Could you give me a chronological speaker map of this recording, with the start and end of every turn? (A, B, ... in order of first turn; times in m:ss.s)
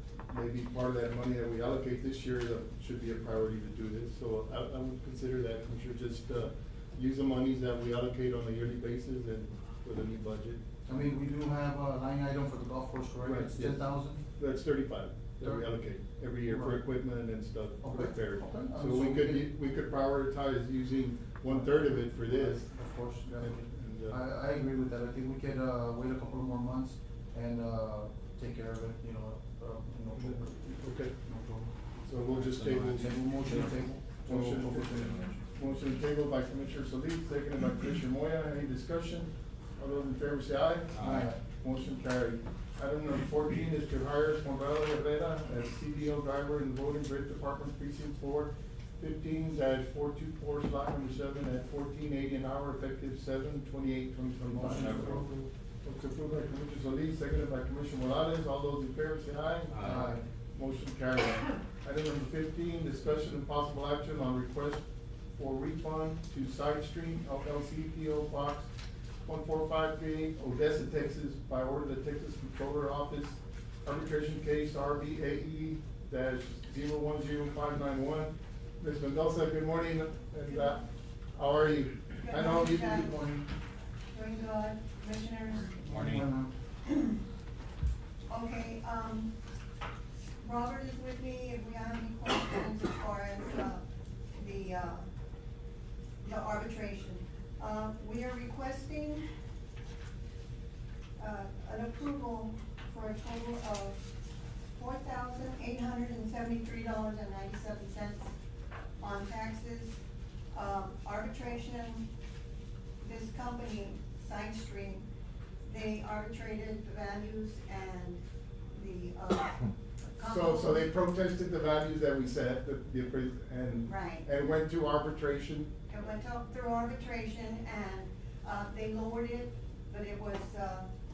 0:00.3-0:10.6 A
0:10.9-0:14.2 B
0:13.2-0:22.6 A
0:15.4-0:15.8 B
0:16.4-0:16.8 B
0:17.8-0:19.5 B
0:21.4-0:31.7 B
0:23.4-0:24.2 A
0:30.1-0:31.1 A
0:32.0-1:04.8 A
0:32.9-0:35.4 B
0:41.0-0:41.4 B
0:54.4-0:55.4 B
0:59.8-1:00.2 B
1:05.4-1:08.7 A
1:09.2-1:20.8 A
1:21.3-1:23.4 A
1:22.2-1:23.1 C
1:24.1-1:25.8 C
1:25.8-1:26.5 B
1:26.8-1:27.2 C
1:28.3-1:29.3 C
1:30.4-1:33.8 C
1:34.3-1:35.0 C
1:36.2-1:39.2 C
1:41.2-1:44.0 C
1:44.7-1:48.3 C
1:49.0-1:50.0 C
1:50.5-1:52.0 C
1:53.0-1:55.0 C
1:55.6-1:58.2 C
1:58.7-2:00.9 C
2:00.2-2:05.7 A
2:03.8-2:04.2 C
2:05.9-2:10.9 C